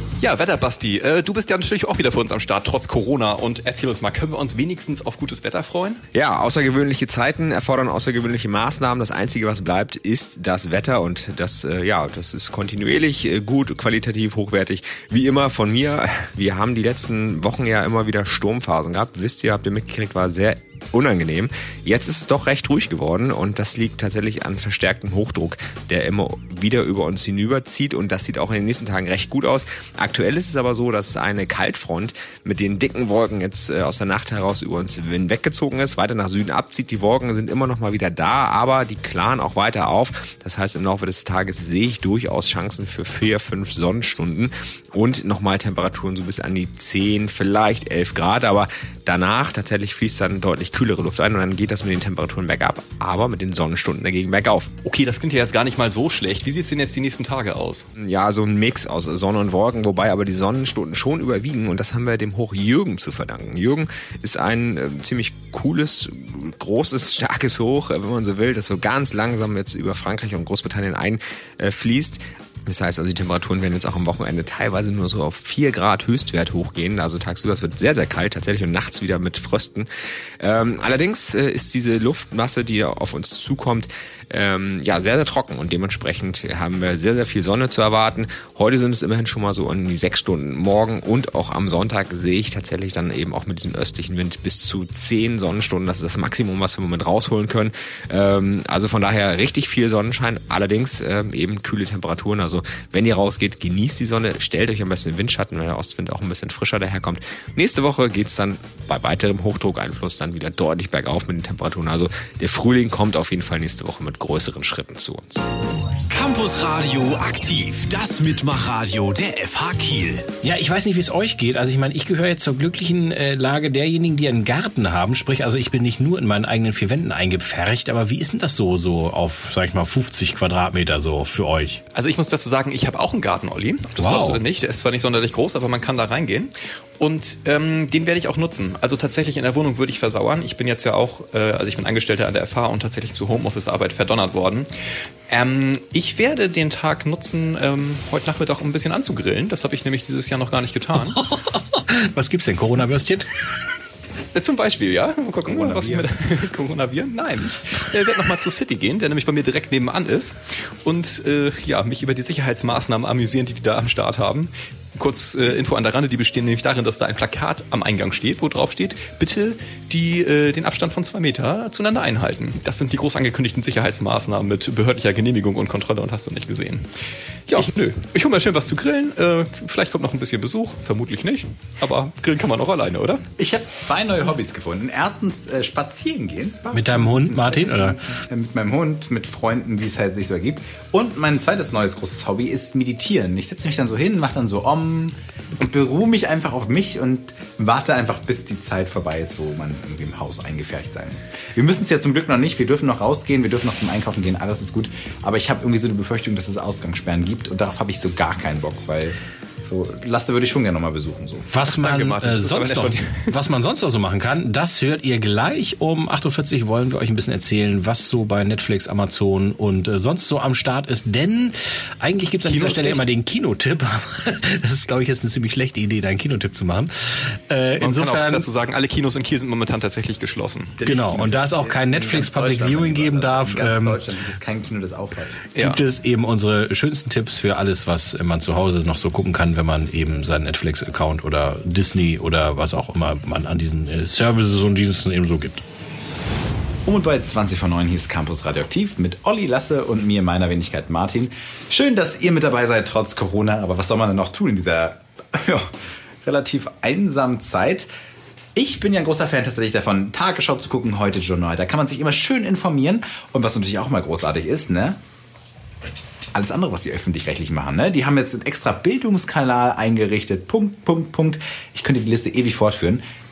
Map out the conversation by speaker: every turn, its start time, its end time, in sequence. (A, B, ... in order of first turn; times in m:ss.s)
0:00.2-0:06.0 A
0:06.1-0:54.7 B
0:54.8-0:57.9 A
0:58.0-1:19.9 B
1:20.4-1:55.4 B
1:56.1-2:00.3 C
2:00.4-2:11.8 D
2:11.9-2:24.7 A
2:14.0-2:14.4 D
2:25.3-2:31.2 A
2:31.2-2:33.3 D
2:34.3-2:56.9 A
2:35.4-2:36.1 E
2:57.5-3:03.2 A
3:03.4-3:31.5 E
3:06.7-3:08.0 D
3:31.5-3:48.4 D
3:31.6-3:33.3 A
3:42.4-3:43.1 A
3:47.8-3:50.7 A
3:50.8-3:55.4 E
3:50.8-3:54.0 D
3:55.6-3:55.8 A
3:55.6-4:05.6 D
4:06.8-4:17.9 E
4:18.5-4:25.0 E
4:26.3-4:33.0 E